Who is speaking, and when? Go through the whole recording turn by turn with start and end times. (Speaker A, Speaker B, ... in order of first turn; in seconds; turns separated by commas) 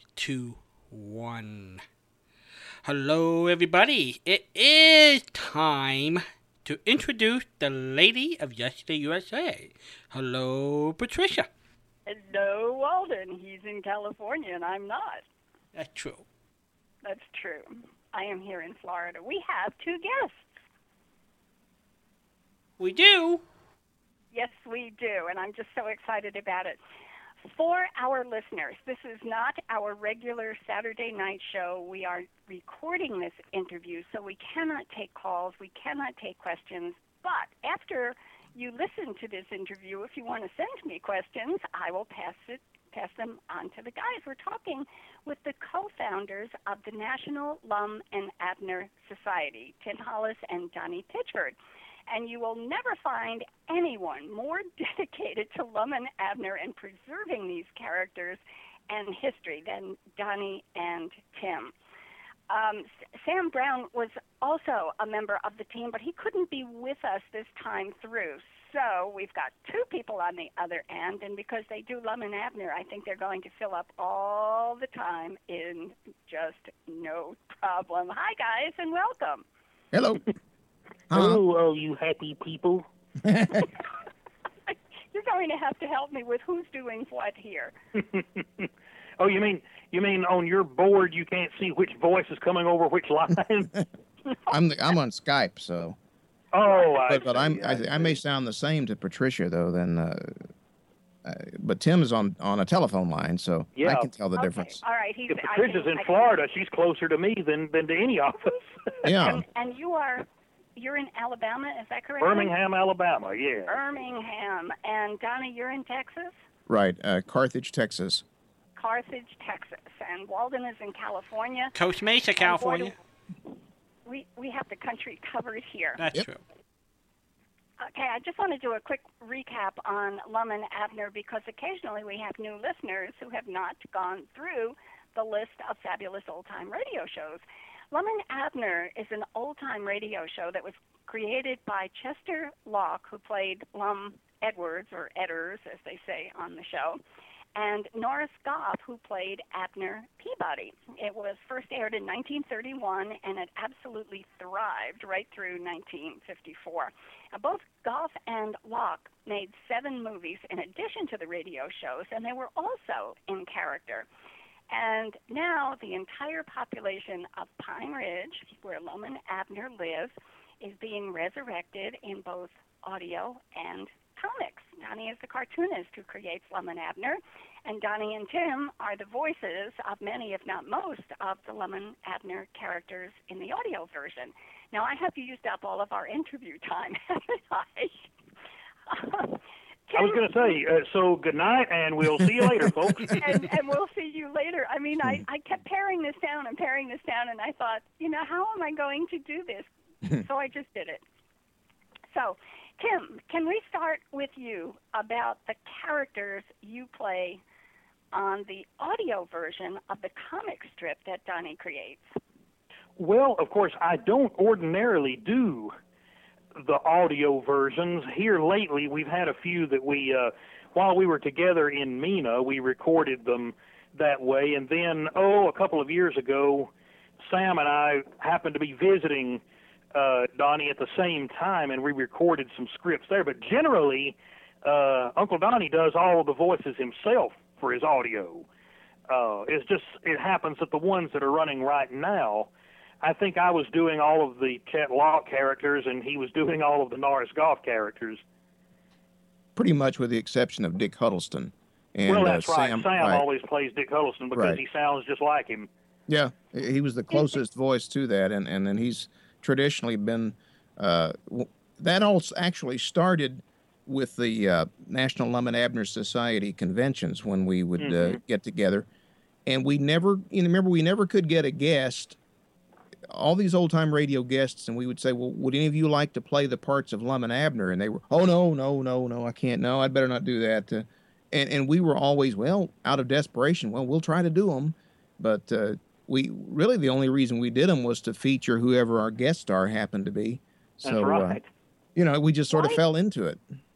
Speaker A: 0.1-1.8, Speaker A: 2.8-11.5, Speaker B: 12.1-15.2, Speaker A: 15.8-16.2, Speaker B: 17.0-20.6, Speaker A: 22.8-23.4, Speaker B: 24.3-26.8, Speaker B: 27.5-51.6, Speaker B: 52.1-61.7, Speaker B: 62.5-79.5, Speaker C: 79.9-80.2, Speaker D: 81.1-82.8, Speaker C: 81.1-81.4, Speaker C: 83.2-83.7, Speaker B: 84.7-87.7, Speaker D: 88.0-93.7, Speaker B: 94.3-94.6, Speaker C: 94.5-96.0, Speaker D: 96.5-98.1, Speaker B: 96.7-97.1, Speaker C: 97.1-100.5, Speaker C: 101.2-104.8, Speaker D: 103.8-104.1, Speaker B: 104.4-106.4, Speaker D: 105.3-109.1, Speaker C: 109.0-109.4, Speaker B: 109.2-112.5, Speaker D: 112.2-113.8, Speaker B: 113.7-116.3, Speaker C: 116.7-118.2, Speaker B: 118.8-121.8, Speaker A: 121.8-122.9, Speaker B: 122.4-122.9, Speaker B: 124.1-126.0, Speaker A: 126.0-126.4, Speaker B: 127.8-147.0, Speaker B: 147.6-164.1, Speaker B: 164.7-188.1, Speaker B: 188.9-190.6, Speaker D: 189.9-193.3, Speaker B: 193.1-201.0, Speaker B: 202.1-207.4, Speaker B: 208.1-212.0, Speaker D: 213.0-215.7, Speaker D: 216.6-226.7, Speaker D: 227.3-229.4, Speaker D: 229.9-238.5, Speaker D: 239.1-242.5, Speaker D: 243.0-248.2, Speaker C: 249.6-253.2, Speaker D: 252.1-255.7, Speaker C: 254.3-254.6, Speaker C: 256.1-268.9, Speaker B: 257.1-257.4, Speaker D: 267.8-268.2, Speaker C: 269.5-272.2, Speaker C: 273.1-291.4, Speaker D: 290.8-291.5, Speaker C: 291.9-293.4, Speaker B: 292.5-292.8